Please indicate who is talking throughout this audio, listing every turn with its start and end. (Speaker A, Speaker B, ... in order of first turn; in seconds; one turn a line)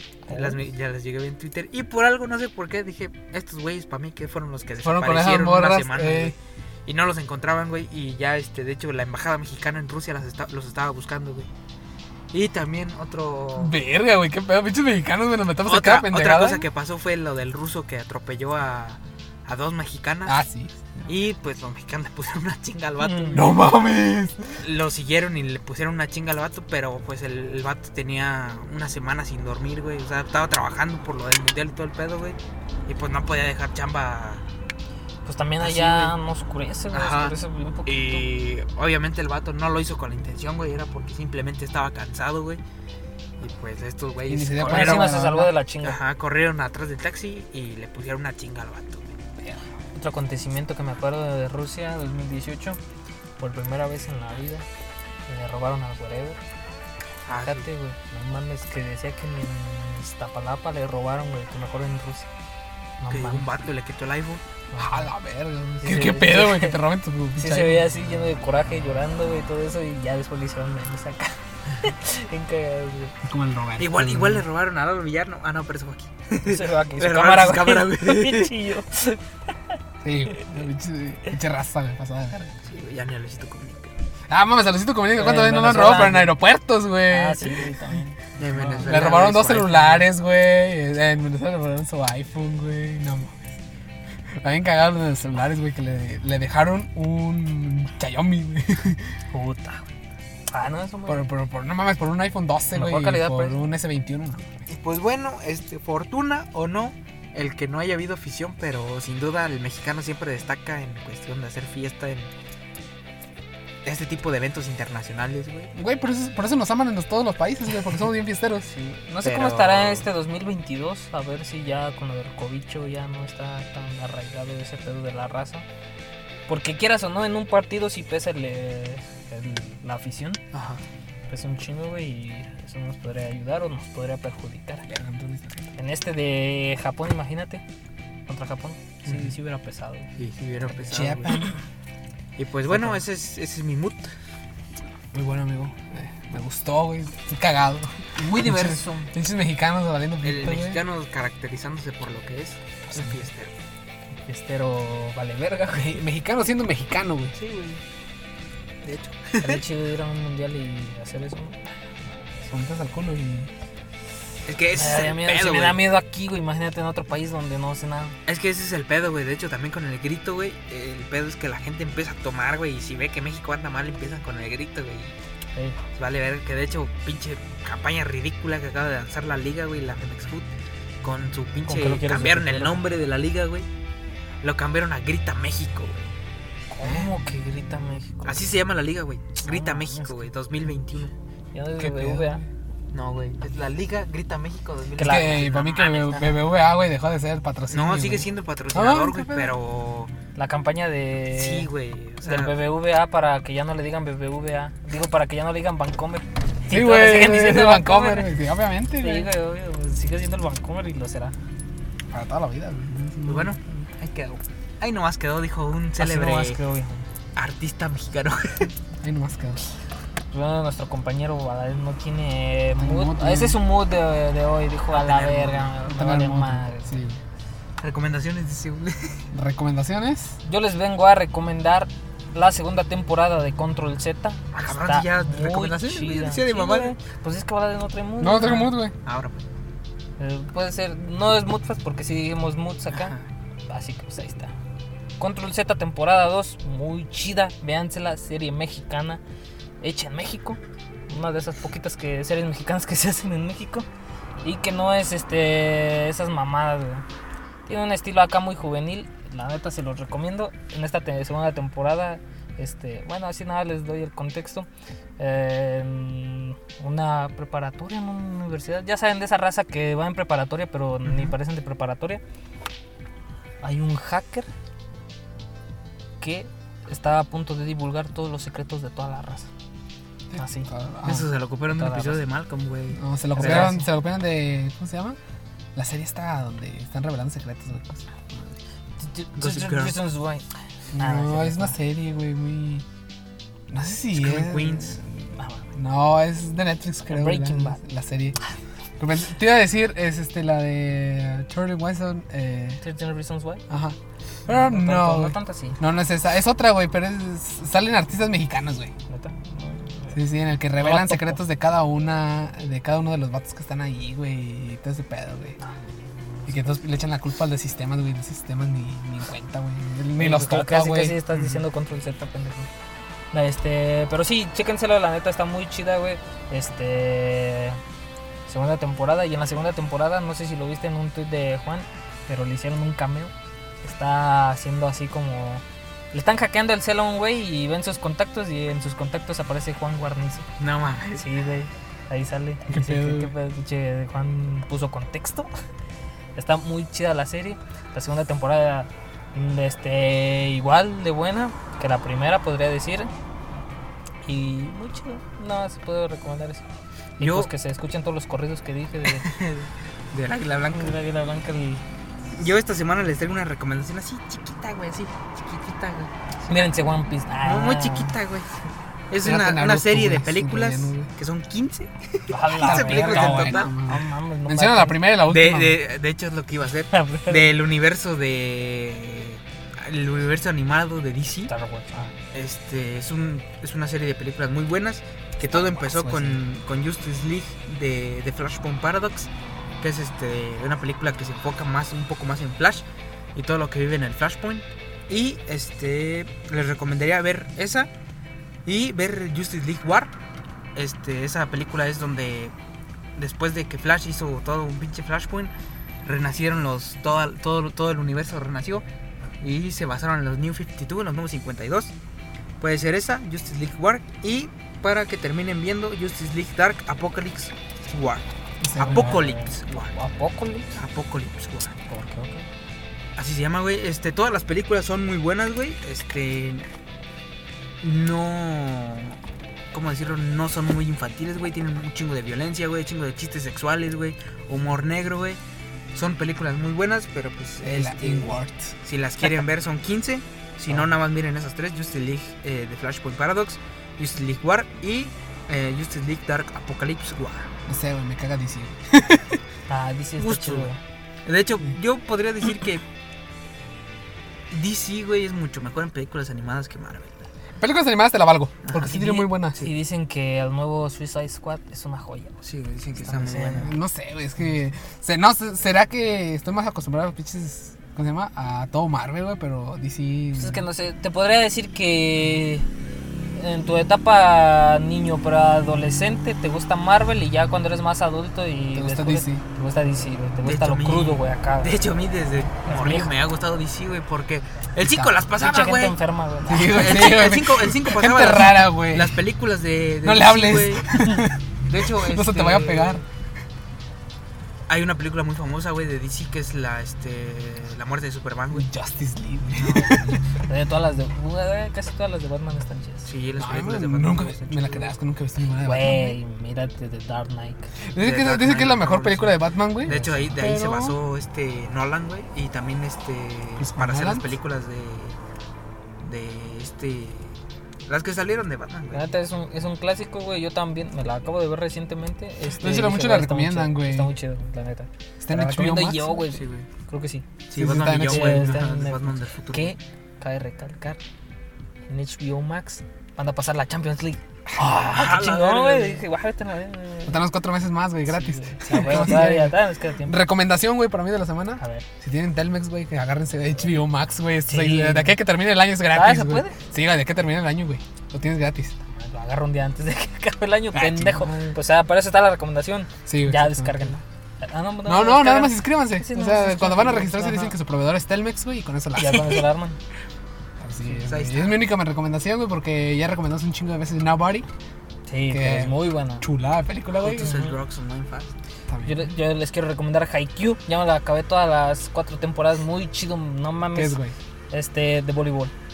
Speaker A: 0.3-11.5
Speaker B: 4.8-6.3
Speaker A: 12.3-13.8
Speaker B: 13.6-16.6
Speaker A: 15.6-20.4
Speaker B: 20.2-21.1
Speaker A: 21.1-23.6
Speaker C: 23.0-23.5
Speaker B: 23.3-24.6
Speaker A: 24.6-34.4
Speaker C: 35.2-38.2
Speaker A: 35.6-36.1
Speaker A: 36.9-42.6
Speaker A: 43.4-45.1
Speaker B: 44.3-45.5
Speaker C: 44.6-46.0
Speaker A: 45.8-49.1
Speaker C: 49.9-52.8
Speaker C: 53.4-54.6
Speaker C: 55.3-56.4
Speaker A: 57.2-57.7
Speaker C: 57.3-62.3
Speaker C: 63.0-63.5
Speaker A: 63.1-64.4
Speaker C: 64.7-65.1
Speaker B: 64.8-67.8
Speaker C: 65.8-66.8
Speaker C: 67.3-73.1
Speaker B: 73.2-74.4
Speaker A: 73.8-78.5
Speaker C: 76.4-79.7
Speaker B: 80.0-82.5
Speaker A: 82.6-83.9
Speaker B: 84.3-87.7
Speaker C: 85.1-86.3
Speaker C: 87.1-90.0
Speaker A: 88.4-90.0
Speaker B: 88.6-93.6
Speaker B: 94.4-99.0
Speaker C: 99.3-99.9
Speaker C: 100.5-101.2
Speaker B: 101.1-104.7
Speaker C: 102.7-103.6
Speaker A: 104.7-112.3
Speaker A: 113.8-115.7
Speaker B: 115.7-118.7
Speaker C: 118.7-125.7
Speaker A: 119.2-120.1
Speaker C: 126.5-130.4
Speaker A: 130.5-130.8
Speaker C: 131.3-134.9
Speaker B: 134.9-135.7
Speaker C: 135.8-137.6
Speaker C: 138.3-140.1
Speaker A: 140.2-141.4
Speaker B: 140.9-141.5
Speaker A: 142.4-144.1
Speaker B: 142.7-143.0
Speaker B: 145.1-150.8
Speaker A: 148.2-148.9
Speaker C: 148.3-149.1
Speaker A: 150.2-153.5
Speaker B: 152.9-153.2
Speaker C: 154.3-156.0
Speaker B: 155.7-157.3
Speaker A: 157.3-157.8
Speaker A: 158.8-159.6
Speaker C: 159.4-161.9
Speaker B: 162.5-163.5
Speaker A: 164.4-165.8
Speaker C: 164.7-168.2
Speaker A: 168.3-175.1
Speaker A: 175.9-180.5
Speaker A: 181.0-183.7
Speaker C: 181.7-182.8
Speaker A: 184.4-186.0
Speaker C: 186.7-188.4
Speaker A: 188.2-191.1
Speaker C: 189.4-190.1
Speaker C: 191.5-192.4
Speaker B: 191.8-192.4
Speaker A: 192.9-196.3
Speaker C: 195.0-195.5
Speaker B: 195.0-199.5
Speaker A: 197.7-200.1
Speaker C: 200.3-201.7
Speaker A: 201.3-202.6
Speaker C: 202.2-208.3
Speaker B: 206.7-209.3
Speaker C: 208.9-211.3
Speaker B: 212.1-213.8
Speaker A: 213.2-216.6
Speaker C: 216.0-217.1
Speaker A: 217.3-218.7
Speaker B: 219.0-219.6
Speaker C: 220.3-226.9
Speaker B: 222.8-223.6
Speaker A: 224.9-225.8
Speaker B: 225.9-227.2
Speaker A: 227.8-229.2
Speaker B: 229.3-230.4
Speaker C: 230.4-238.7
Speaker A: 234.5-236.9
Speaker B: 238.2-238.9
Speaker A: 239.0-239.4
Speaker C: 240.2-243.1
Speaker A: 242.9-243.3
Speaker C: 243.7-244.5
Speaker C: 245.2-249.2
Speaker C: 249.8-253.9
Speaker C: 254.4-257.1
Speaker C: 257.7-264.7
Speaker C: 265.2-272.2
Speaker C: 273.6-274.5
Speaker C: 276.2-279.5
Speaker B: 280.3-281.3
Speaker C: 280.4-280.7
Speaker A: 281.0-283.8
Speaker C: 281.7-282.2
Speaker B: 282.9-285.2
Speaker C: 283.3-283.9
Speaker B: 285.7-288.6
Speaker C: 289.0-290.4
Speaker A: 289.4-290.0
Speaker B: 290.9-292.9
Speaker C: 290.9-291.8
Speaker B: 293.7-298.4
Speaker A: 294.1-295.0
Speaker C: 295.4-295.6
Speaker C: 297.1-297.8
Speaker B: 299.0-302.8
Speaker C: 302.8-303.6
Speaker B: 303.7-308.9
Speaker C: 304.5-305.8
Speaker C: 309.1-310.2
Speaker B: 310.1-315.6
Speaker C: 310.8-311.4
Speaker C: 315.6-316.6
Speaker B: 316.5-321.2
Speaker C: 320.2-322.7
Speaker A: 321.3-321.6
Speaker C: 323.3-327.8
Speaker C: 328.5-340.5
Speaker A: 340.6-341.3
Speaker C: 341.1-345.5
Speaker B: 342.7-343.3
Speaker C: 346.3-353.1
Speaker C: 354.2-356.6
Speaker A: 357.2-357.5
Speaker C: 357.2-359.3
Speaker A: 359.0-361.0
Speaker C: 360.7-361.8
Speaker A: 362.4-366.9
Speaker C: 366.5-368.1
Speaker A: 367.4-368.5
Speaker A: 369.1-373.7
Speaker B: 369.2-371.1
Speaker C: 372.3-375.0
Speaker B: 372.6-375.8
Speaker A: 375.2-381.5
Speaker C: 376.9-377.6
Speaker C: 381.5-382.1
Speaker A: 382.3-389.3
Speaker B: 385.7-386.4
Speaker A: 389.8-392.8
Speaker A: 393.3-397.9
Speaker A: 398.6-400.1
Speaker A: 400.8-402.5
Speaker A: 403.2-405.5
Speaker A: 406.0-408.8
Speaker A: 409.4-411.9
Speaker A: 412.6-418.2
Speaker B: 418.6-419.2
Speaker A: 418.8-419.9
Speaker C: 418.8-420.7
Speaker A: 420.7-421.8
Speaker C: 421.9-422.5
Speaker A: 423.1-426.7
Speaker A: 427.8-429.2
Speaker A: 429.7-435.4
Speaker A: 435.9-438.3
Speaker B: 437.6-438.7
Speaker A: 438.8-447.5
Speaker B: 447.7-449.4
Speaker C: 449.7-450.8
Speaker A: 450.2-450.7
Speaker A: 451.2-452.8
Speaker A: 454.5-457.3
Speaker B: 457.6-459.6
Speaker A: 458.6-459.0
Speaker C: 458.8-462.4
Speaker A: 462.4-463.7
Speaker C: 463.0-463.7
Speaker B: 463.5-470.6
Speaker C: 470.3-472.7
Speaker C: 473.4-481.8
Speaker B: 478.7-479.4
Speaker A: 480.4-486.0
Speaker C: 482.7-483.1
Speaker C: 485.4-486.8
Speaker B: 486.4-489.2
Speaker A: 486.5-490.9
Speaker B: 490.0-493.0
Speaker A: 491.7-493.0
Speaker A: 494.7-498.7
Speaker B: 498.5-500.2
Speaker A: 499.6-500.2
Speaker C: 500.3-503.1
Speaker A: 503.0-504.9
Speaker B: 503.3-506.2
Speaker C: 505.6-507.7
Speaker B: 507.9-510.9
Speaker A: 508.0-515.2
Speaker C: 509.9-510.3
Speaker B: 513.6-514.3
Speaker A: 516.0-517.4
Speaker A: 517.9-519.1
Speaker C: 518.9-527.3
Speaker B: 522.6-524.1
Speaker B: 525.2-526.2
Speaker A: 526.3-526.7
Speaker A: 527.5-529.8
Speaker B: 527.5-528.7
Speaker C: 527.9-531.0
Speaker C: 531.9-537.2
Speaker A: 534.7-536.0
Speaker B: 537.1-548.8
Speaker C: 538.1-540.2
Speaker C: 541.6-541.8
Speaker C: 544.5-545.1
Speaker C: 545.9-546.6
Speaker C: 548.9-557.5
Speaker B: 550.7-551.5
Speaker B: 553.0-554.0
Speaker B: 554.8-559.5
Speaker C: 558.9-559.8
Speaker B: 560.6-564.5
Speaker A: 561.0-561.6
Speaker C: 565.1-566.2
Speaker B: 565.3-567.4
Speaker A: 567.0-568.3
Speaker C: 567.2-567.5
Speaker B: 568.7-569.1
Speaker C: 568.8-574.0
Speaker B: 573.7-574.1
Speaker C: 574.5-575.5